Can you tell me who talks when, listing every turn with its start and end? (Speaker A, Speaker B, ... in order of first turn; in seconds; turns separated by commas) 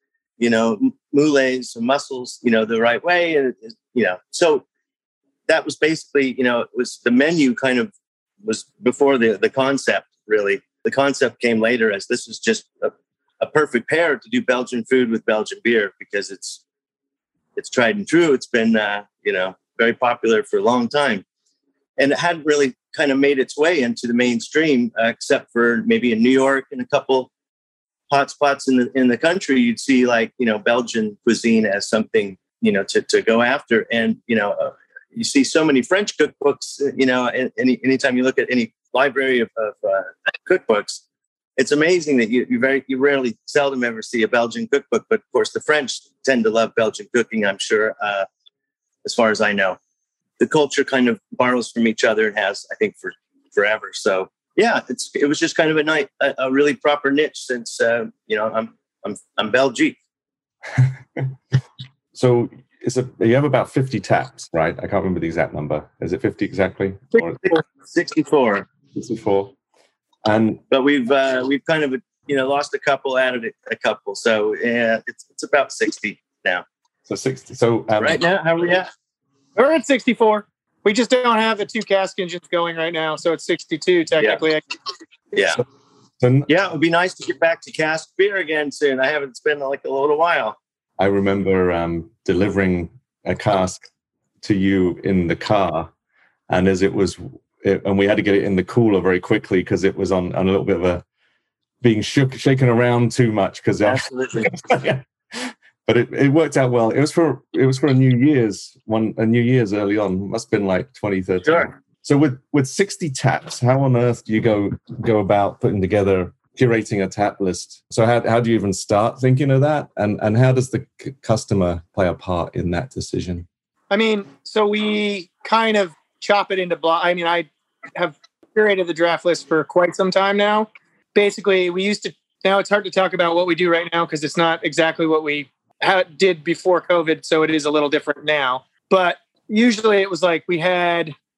Speaker A: 0.4-4.6, Speaker A: 5.5-7.9, Speaker A: 8.4-16.6, Speaker A: 17.6-21.2, Speaker A: 22.0-27.3, Speaker A: 28.1-41.0, Speaker A: 41.6-48.3, Speaker A: 49.0-49.8, Speaker A: 50.4-60.0, Speaker B: 60.8-61.3, Speaker B: 62.1-67.5, Speaker A: 67.4-68.7, Speaker B: 68.9-69.5, Speaker B: 70.2-70.6, Speaker A: 70.7-76.6, Speaker B: 77.1-78.2, Speaker A: 78.0-78.9, Speaker C: 79.5-84.6, Speaker A: 85.3-85.6, Speaker B: 86.2-86.5, Speaker A: 86.5-90.6, Speaker B: 91.0-93.9, Speaker B: 94.4-95.9, Speaker B: 96.5-101.0, Speaker B: 101.8-123.5, Speaker A: 103.8-104.5, Speaker A: 111.4-111.7, Speaker C: 123.9-141.1